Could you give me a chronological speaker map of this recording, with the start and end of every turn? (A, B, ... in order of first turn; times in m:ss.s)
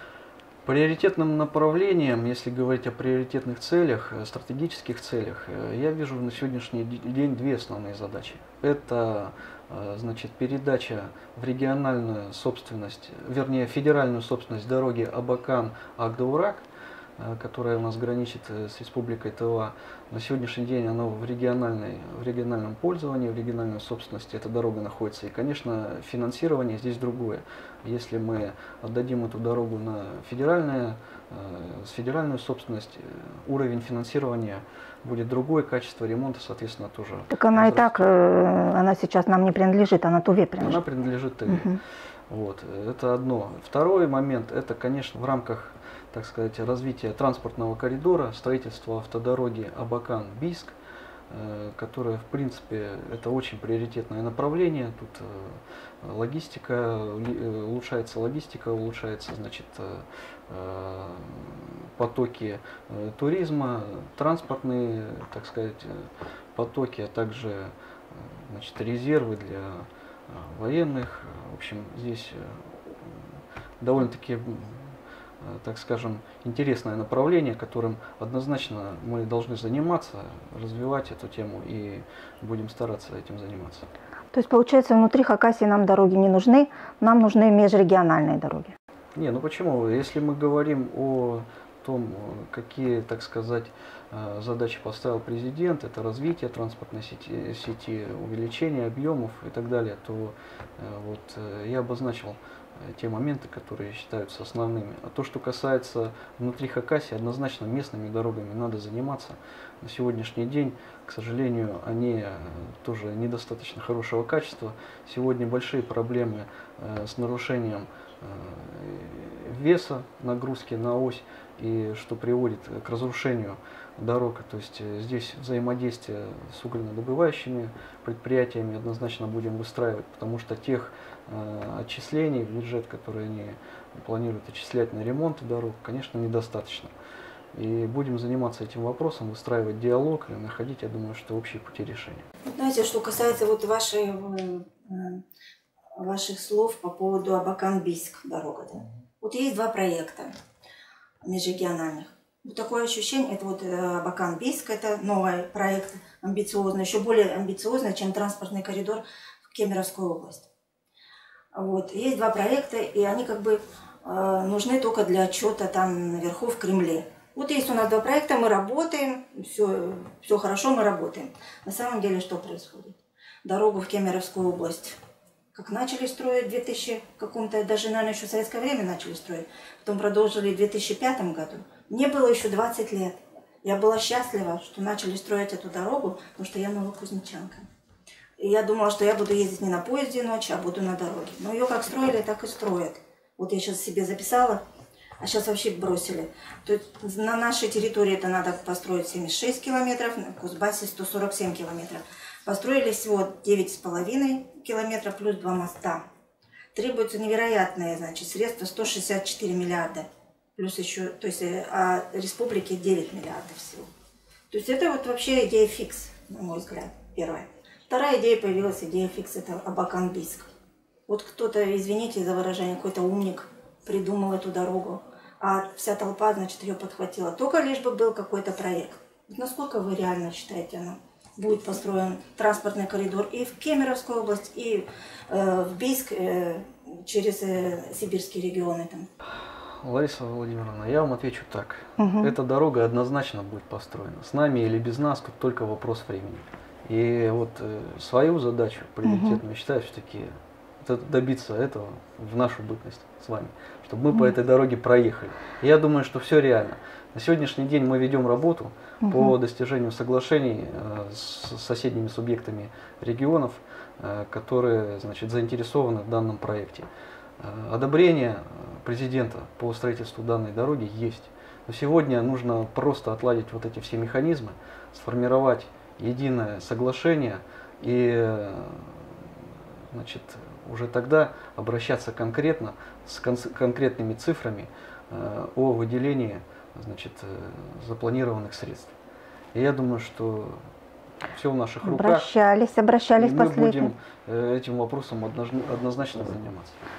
0:00.6-0:16.7 A
0:17.2-0:38.0 A
0:37.3-0:40.8 B
0:40.6-0:41.8 A
0:41.5-0:41.8 B
0:42.3-0:50.8 A
0:51.3-1:13.3 A
1:13.8-1:14.9 A
1:15.4-1:23.8 A
1:24.3-1:28.7 B
1:29.1-2:16.9 A
2:17.5-2:22.2 A
2:22.5-2:25.2 B
2:26.0-2:30.3 B
2:31.2-2:40.5 B
2:41.5-2:55.0 B
2:55.5-3:07.6 B
3:08.4-3:14.6 B
3:15.2-3:26.0 B
3:26.7-3:33.9 B
3:34.5-3:40.5 B
3:41.1-3:59.1 B
3:59.8-4:10.3 A
4:02.0-4:02.3 B
4:09.0-4:09.4 B
4:10.8-4:26.9 A
4:19.0-4:19.3 B
4:27.4-4:39.3 A
4:39.9-4:48.9 A
4:49.5-4:50.6 A
4:51.3-4:52.3 A
4:51.8-4:53.9 B
4:53.2-4:56.8 A